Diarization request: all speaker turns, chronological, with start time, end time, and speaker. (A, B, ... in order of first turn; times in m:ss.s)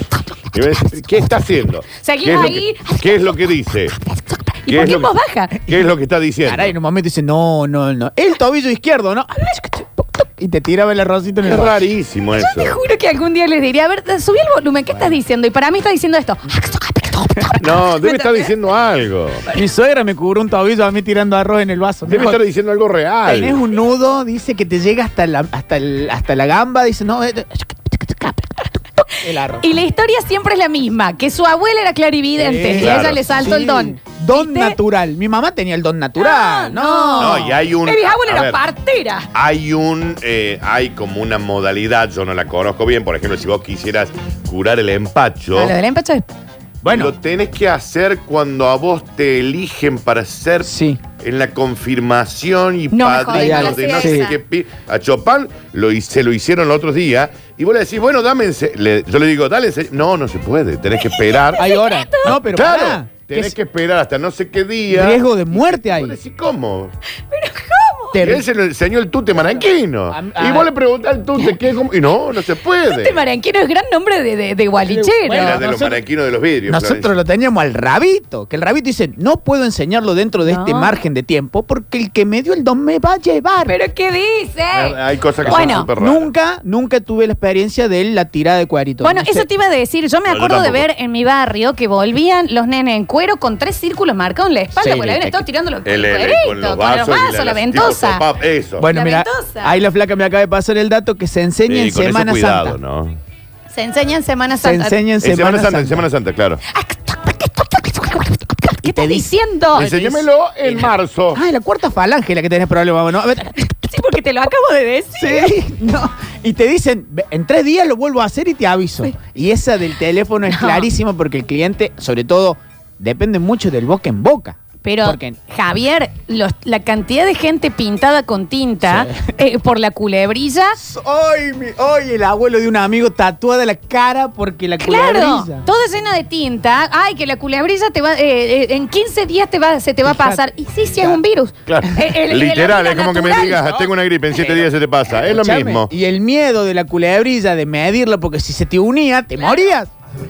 0:00.5-0:04.0 A
0:02.0-0:03.5 B
0:04.1-0:05.6 B
0:04.7-0:06.7 A
0:06.4-0:11.8 C
0:11.4-0:12.8 A
0:12.4-0:18.5 B
0:17.6-0:19.4 A
0:19.5-0:22.4 C
0:22.0-0:23.6 A
0:23.2-0:29.8 C
0:29.1-0:34.8 B
0:32.4-0:37.6 C
0:32.7-0:33.4 A
0:36.2-0:39.3 B
0:37.2-0:38.6 A
0:39.3-0:45.7 A
0:45.5-0:46.3 B
0:46.8-0:47.1 C
0:46.8-1:01.6 A
0:50.6-0:51.0 C
0:52.9-0:54.3 B
0:53.3-0:54.3 C
1:01.0-1:02.4 B
1:01.6-1:03.5 C
1:02.2-1:06.9 A
1:04.9-1:06.2 C
1:07.3-1:08.2 B
1:08.1-1:08.4 C
1:08.2-1:13.2 A
1:09.3-1:10.7 C
1:12.8-1:15.6 B
1:14.8-1:16.0 C
1:15.3-1:17.1 A
1:16.7-1:23.8 C
1:20.4-1:21.0 B
1:23.6-1:25.9 B
1:24.7-1:26.3 A
1:25.4-1:29.5 C
1:29.0-1:38.2 B
1:30.3-1:30.9 A
1:34.8-1:35.4 C
1:35.8-1:38.8 A
1:38.8-1:42.8 C
1:38.9-1:39.8 B
1:41.7-1:43.2 A
1:43.7-1:45.0 B
1:44.5-1:46.1 C
1:45.2-1:46.6 A
1:46.7-1:50.2 B
1:48.8-1:49.3 C
1:49.7-1:51.4 A
1:50.6-1:53.9 C
1:53.6-1:55.6 B
1:55.1-2:05.4 C
2:00.5-2:00.9 B
2:04.8-2:10.8 B
2:08.8-2:09.2 C
2:10.8-2:15.7 C
2:14.8-2:23.8 B
2:20.0-2:20.4 C
2:21.7-2:25.9 A
2:23.6-2:29.9 C
2:29.4-2:29.7 B